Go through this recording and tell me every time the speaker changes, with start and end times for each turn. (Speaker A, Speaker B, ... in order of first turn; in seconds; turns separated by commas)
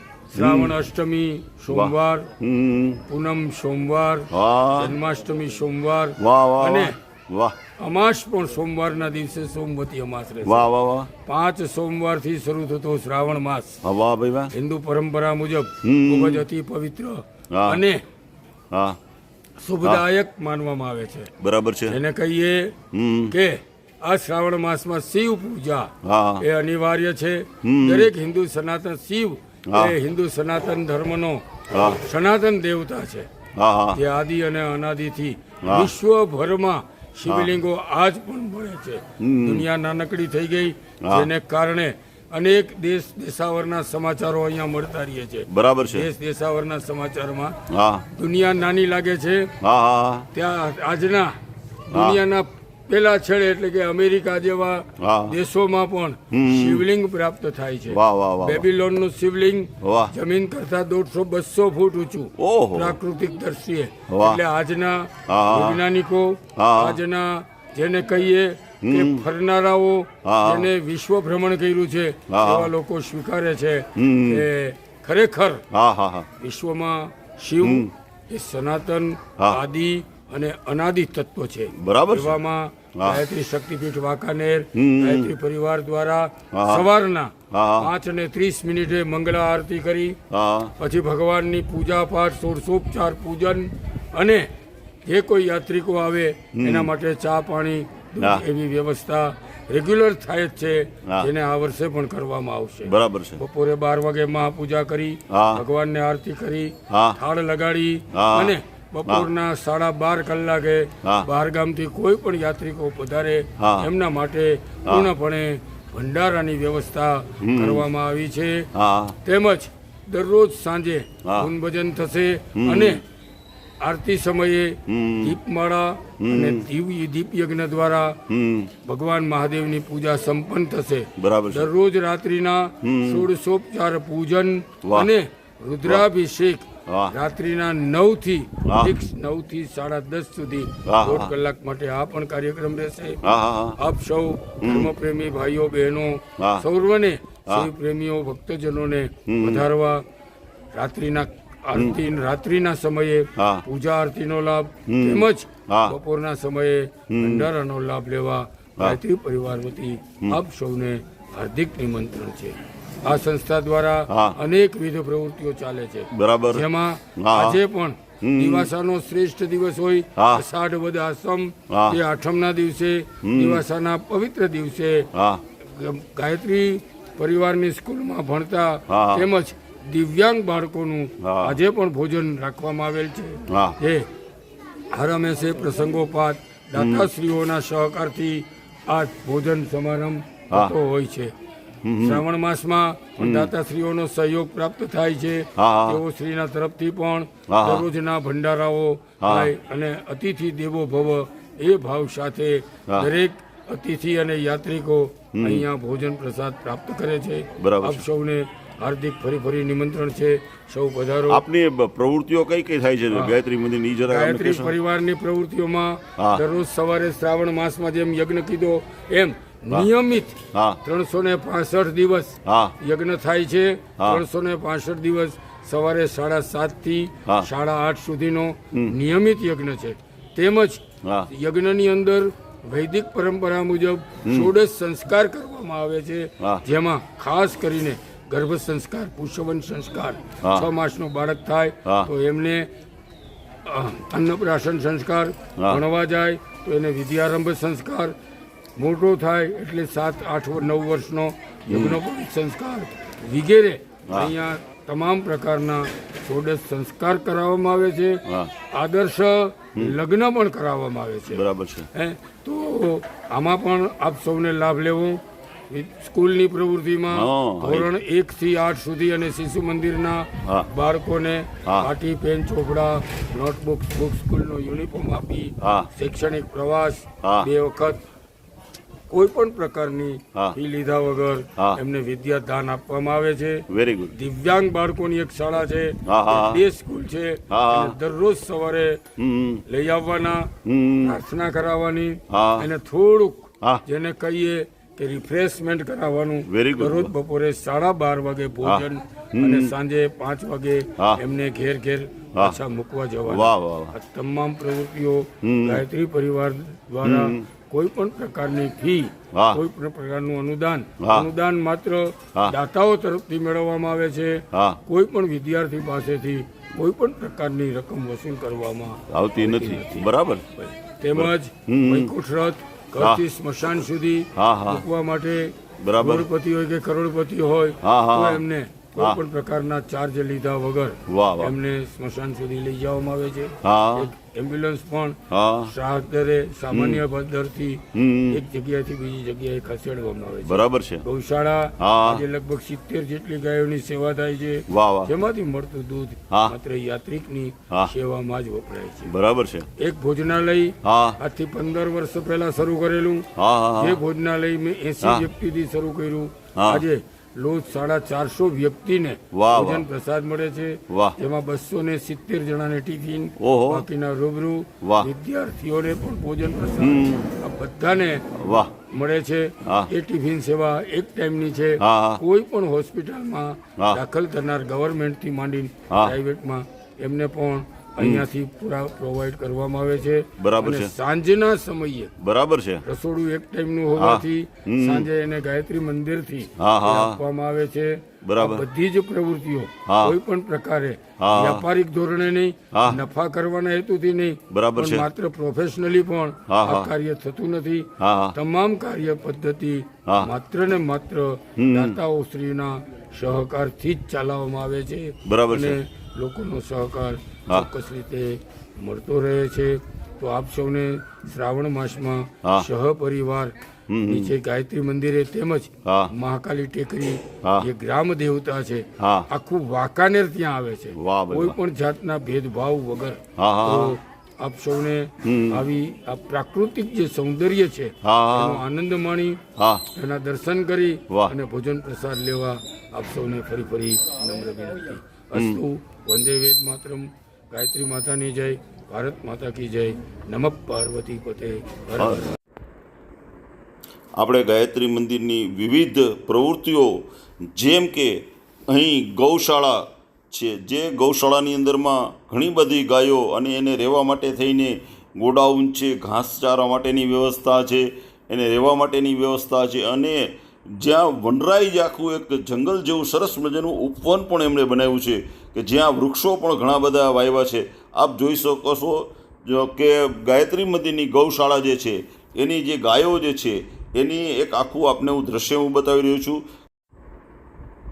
Speaker A: 0.3-2.3, Speaker B: 0.3-0.8, Speaker B: 1.7-3.0, Speaker A: 3.1-7.0, Speaker B: 4.3-5.0, Speaker B: 6.2-7.6, Speaker A: 7.8-10.7, Speaker B: 10.4-11.1, Speaker A: 11.2-13.8, Speaker B: 13.8-14.5, Speaker A: 14.5-18.0, Speaker B: 15.8-16.4, Speaker B: 17.5-17.8, Speaker B: 18.7-19.0, Speaker A: 19.6-21.3, Speaker B: 21.4-22.0, Speaker A: 21.9-22.8, Speaker B: 22.9-23.4, Speaker A: 23.3-33.3, Speaker B: 26.0-26.4, Speaker B: 27.6-28.1, Speaker B: 29.7-29.9, Speaker B: 31.7-32.0, Speaker B: 33.6-34.0, Speaker A: 33.9-47.6, Speaker B: 35.6-35.9, Speaker B: 37.3-37.5, Speaker B: 39.2-39.7, Speaker B: 41.0-41.3, Speaker B: 45.5-46.1, Speaker B: 47.7-48.1, Speaker A: 48.1-49.5, Speaker B: 49.6-50.3, Speaker A: 50.3-51.3, Speaker A: 51.9-75.6, Speaker B: 51.9-52.2, Speaker B: 55.0-55.4, Speaker B: 56.3-56.8, Speaker B: 57.9-58.6, Speaker B: 59.8-60.1, Speaker B: 62.4-63.0, Speaker B: 64.1-64.4, Speaker B: 65.3-65.8, Speaker B: 66.6-67.0, Speaker B: 68.8-69.2, Speaker B: 70.2-70.7, Speaker B: 72.3-72.7, Speaker B: 74.0-74.5, Speaker B: 75.7-76.3, Speaker A: 76.4-90.2, Speaker B: 77.6-77.9, Speaker B: 81.8-82.4, Speaker B: 84.7-85.3, Speaker B: 86.5-86.9, Speaker B: 87.5-87.9, Speaker B: 90.3-90.7, Speaker A: 90.8-94.5, Speaker A: 95.0-118.7, Speaker B: 96.5-96.9, Speaker B: 102.8-103.4, Speaker B: 105.3-105.6, Speaker B: 106.9-107.2, Speaker B: 108.1-108.6, Speaker B: 111.0-111.3, Speaker B: 113.6-113.9, Speaker B: 117.4-117.9, Speaker B: 118.7-119.2, Speaker A: 119.2-123.0, Speaker B: 122.6-123.0, Speaker A: 123.8-128.2, Speaker B: 124.9-125.4, Speaker B: 126.2-126.7, Speaker B: 128.3-128.7, Speaker A: 128.8-143.2, Speaker B: 131.2-131.7, Speaker B: 132.8-133.3, Speaker B: 134.8-135.1, Speaker B: 136.9-137.1, Speaker B: 138.6-138.9, Speaker B: 140.9-141.3, Speaker B: 143.2-143.8, Speaker A: 143.8-150.0, Speaker B: 144.6-144.9, Speaker B: 146.4-146.6, Speaker B: 149.3-149.7, Speaker A: 150.7-175.1, Speaker B: 153.4-153.6, Speaker B: 154.9-155.9, Speaker B: 157.1-157.5, Speaker B: 164.1-164.4, Speaker B: 166.1-166.7, Speaker B: 167.2-167.6, Speaker B: 168.2-168.7, Speaker B: 170.2-170.4, Speaker B: 171.7-172.0, Speaker B: 173.2-173.6, Speaker B: 175.1-175.4, Speaker A: 175.6-184.1, Speaker B: 178.9-179.3, Speaker B: 181.2-181.6, Speaker B: 183.5-183.8, Speaker A: 184.9-191.3, Speaker B: 186.8-187.1, Speaker B: 191.8-192.2, Speaker A: 192.0-211.4, Speaker B: 193.2-193.5, Speaker B: 195.6-196.0, Speaker B: 197.5-197.8, Speaker B: 199.2-199.5, Speaker B: 205.3-205.7, Speaker B: 207.6-208.1, Speaker B: 211.3-214.8, Speaker A: 213.1-213.4, Speaker A: 214.1-242.7, Speaker B: 216.2-216.4, Speaker B: 220.5-220.8, Speaker B: 222.4-222.8, Speaker B: 231.0-231.3, Speaker B: 234.2-234.5, Speaker A: 243.6-248.1, Speaker A: 248.8-261.4, Speaker B: 251.7-252.0, Speaker B: 258.2-258.5, Speaker B: 261.3-261.9, Speaker A: 261.9-278.0, Speaker B: 267.1-267.9, Speaker B: 275.6-275.9, Speaker B: 277.2-277.5, Speaker A: 279.1-289.0, Speaker B: 283.7-284.1, Speaker B: 286.1-286.6, Speaker B: 287.5-287.9, Speaker B: 289.2-289.6, Speaker A: 289.7-349.1, Speaker B: 290.6-291.2, Speaker B: 292.3-292.7, Speaker B: 296.5-297.1, Speaker B: 298.6-299.7, Speaker B: 303.2-303.9, Speaker B: 305.4-305.8, Speaker B: 307.0-307.4, Speaker B: 309.3-309.6, Speaker B: 311.0-311.3, Speaker B: 314.5-314.8, Speaker B: 319.1-320.5, Speaker B: 321.1-322.1, Speaker B: 324.4-324.8, Speaker B: 325.8-326.3, Speaker B: 327.8-328.4, Speaker B: 331.1-331.5, Speaker B: 333.6-334.1, Speaker B: 335.3-335.7, Speaker B: 336.7-337.0, Speaker B: 337.9-338.4, Speaker B: 340.4-341.0, Speaker B: 341.8-342.2, Speaker B: 344.7-345.1, Speaker B: 349.1-349.7, Speaker A: 349.8-368.3, Speaker B: 350.8-351.2, Speaker B: 353.4-354.0, Speaker B: 355.0-355.3, Speaker B: 356.6-356.9, Speaker B: 359.3-359.9, Speaker B: 360.9-361.2, Speaker B: 363.4-363.9, Speaker B: 364.8-365.1, Speaker B: 366.8-367.3, Speaker B: 368.3-368.7, Speaker A: 368.9-382.1, Speaker B: 369.6-369.9, Speaker B: 371.8-372.2, Speaker B: 375.9-376.1, Speaker B: 378.0-378.2, Speaker B: 380.4-380.9, Speaker B: 382.2-382.8, Speaker A: 382.8-413.5, Speaker B: 384.0-385.1, Speaker B: 386.6-387.2, Speaker B: 388.2-388.6, Speaker B: 389.9-390.1, Speaker B: 391.2-391.6, Speaker B: 392.7-393.0, Speaker B: 394.5-395.1, Speaker B: 396.5-396.9, Speaker B: 398.0-398.4, Speaker B: 401.6-402.0, Speaker B: 405.2-405.8, Speaker B: 413.9-414.3, Speaker A: 414.0-429.4, Speaker B: 415.9-416.1, Speaker B: 419.0-419.3, Speaker B: 421.0-421.6, Speaker B: 423.4-424.0, Speaker B: 425.2-425.6, Speaker B: 428.0-428.6, Speaker B: 429.6-429.9, Speaker A: 429.9-442.3, Speaker B: 435.4-435.6, Speaker B: 442.0-442.3, Speaker B: 444.2-476.5